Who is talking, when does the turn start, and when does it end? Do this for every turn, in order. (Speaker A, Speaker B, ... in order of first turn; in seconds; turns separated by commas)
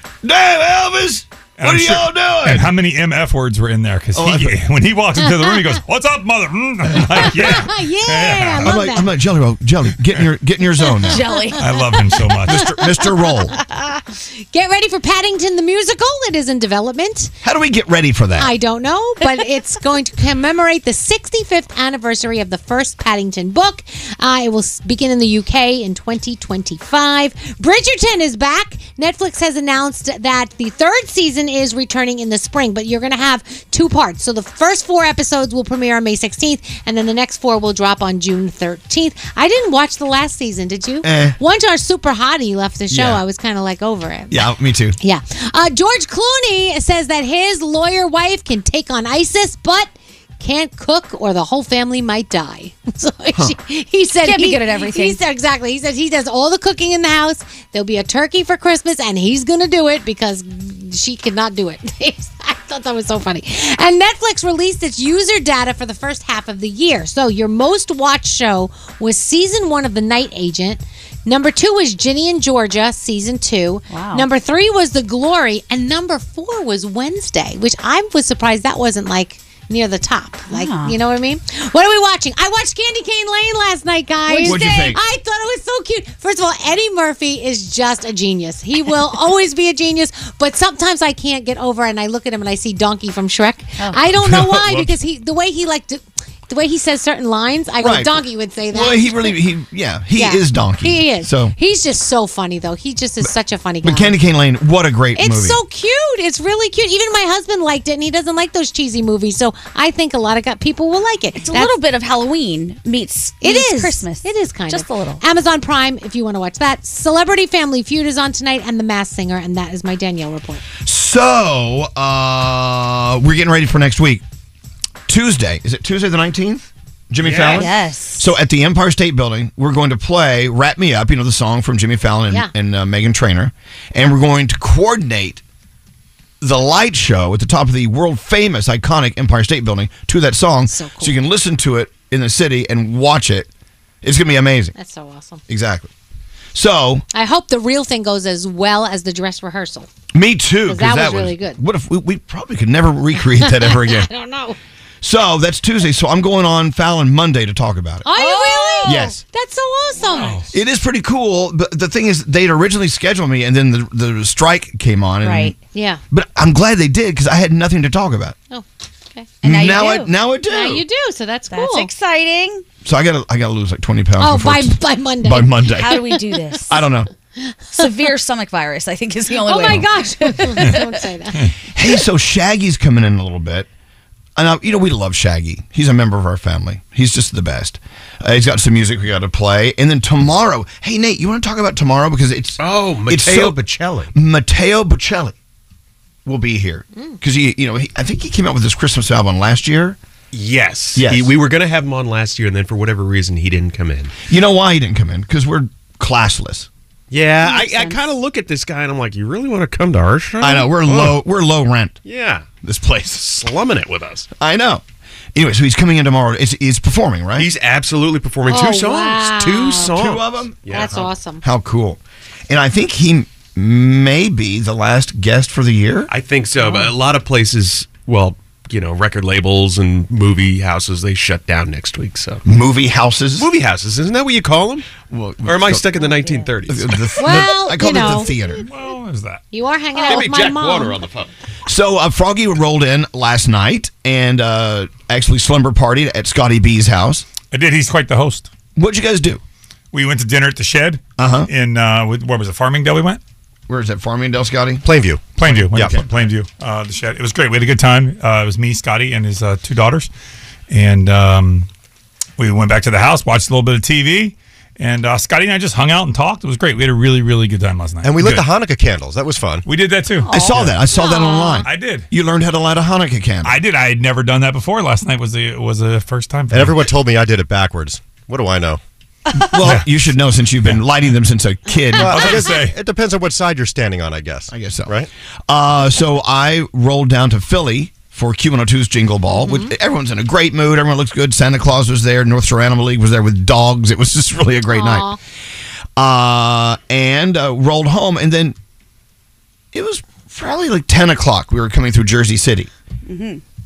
Speaker A: 0.2-2.7, Speaker B: 1.6-8.8, Speaker A: 4.1-4.6, Speaker C: 7.2-9.1, Speaker A: 8.6-11.2, Speaker C: 11.0-11.5, Speaker D: 11.0-11.7, Speaker B: 11.6-12.7, Speaker A: 12.4-13.6, Speaker C: 13.5-17.3, Speaker A: 17.4-18.5, Speaker C: 18.4-44.5, Speaker A: 41.0-41.4, Speaker A: 42.9-43.2, Speaker A: 44.3-45.0, Speaker C: 45.0-99.3, Speaker D: 54.2-55.2, Speaker D: 73.9-74.2, Speaker D: 80.5-81.0, Speaker D: 84.3-84.8, Speaker A: 84.4-85.0, Speaker A: 94.2-94.9, Speaker A: 97.8-101.5, Speaker C: 100.2-104.2, Speaker A: 103.8-105.6, Speaker C: 105.2-111.8, Speaker D: 111.4-115.2, Speaker C: 113.4-120.6, Speaker A: 120.8-124.2, Speaker A: 125.1-135.4, Speaker D: 127.4-128.3, Speaker A: 136.4-143.5, Speaker C: 140.7-141.2, Speaker A: 144.0-144.7, Speaker C: 144.7-145.4, Speaker A: 145.5-145.9, Speaker A: 146.5-147.0, Speaker C: 147.1-149.9, Speaker A: 150.1-154.1, Speaker C: 150.7-151.6, Speaker C: 153.2-154.6, Speaker A: 155.0-158.1, Speaker C: 158.0-160.4, Speaker D: 158.1-159.0, Speaker A: 158.8-159.2, Speaker B: 160.1-160.4, Speaker A: 160.5-165.6, Speaker D: 165.2-165.6, Speaker C: 165.6-166.0, Speaker A: 166.1-168.3, Speaker C: 168.5-169.3, Speaker D: 169.4-170.1, Speaker A: 169.4-170.8, Speaker C: 170.5-171.9, Speaker D: 171.5-172.6, Speaker A: 172.8-176.0, Speaker C: 174.2-176.2, Speaker D: 175.8-176.8, Speaker A: 176.7-177.1, Speaker C: 177.4-177.9, Speaker D: 177.7-180.9, Speaker C: 179.4-181.5, Speaker A: 181.7-183.7, Speaker A: 184.3-193.6, Speaker E: 192.6-194.1, Speaker A: 194.1-195.3, Speaker A: 196.2-200.0, Speaker E: 200.3-204.2, Speaker A: 200.9-201.3, Speaker A: 204.3-206.7, Speaker E: 207.1-211.2, Speaker D: 207.4-208.0, Speaker A: 210.4-212.0, Speaker E: 212.0-212.5, Speaker A: 212.6-213.2, Speaker E: 213.2-214.3, Speaker A: 214.4-214.8, Speaker A: 215.3-217.5, Speaker E: 217.4-221.1, Speaker C: 218.4-220.0, Speaker A: 219.9-226.1, Speaker C: 220.7-221.4, Speaker E: 226.1-232.4, Speaker A: 232.4-233.5, Speaker E: 233.4-234.8, Speaker A: 235.1-235.8, Speaker E: 235.4-236.9, Speaker D: 236.0-236.5, Speaker A: 236.7-238.6, Speaker C: 237.2-238.3, Speaker B: 238.6-239.4, Speaker C: 239.5-241.0, Speaker E: 240.1-240.9, Speaker A: 241.7-247.2, Speaker B: 247.5-248.5, Speaker A: 248.8-249.4, Speaker B: 249.9-253.2, Speaker A: 251.2-251.5, Speaker A: 253.7-254.8, Speaker F: 254.8-255.9, Speaker B: 255.3-260.1, Speaker A: 255.6-256.1, Speaker B: 260.7-261.7, Speaker B: 262.4-268.5, Speaker F: 268.0-269.6, Speaker B: 269.6-270.8, Speaker C: 270.2-271.6, Speaker A: 270.3-273.6, Speaker B: 271.6-272.1, Speaker B: 273.4-276.9, Speaker F: 276.5-278.8, Speaker A: 279.5-282.4, Speaker B: 279.6-279.9, Speaker F: 281.9-285.1, Speaker B: 282.0-282.8, Speaker A: 284.5-284.9, Speaker A: 285.5-295.1, Speaker C: 289.3-289.7, Speaker C: 294.7-295.2, Speaker A: 296.0-298.6, Speaker A: 299.7-302.7, Speaker D: 303.1-303.4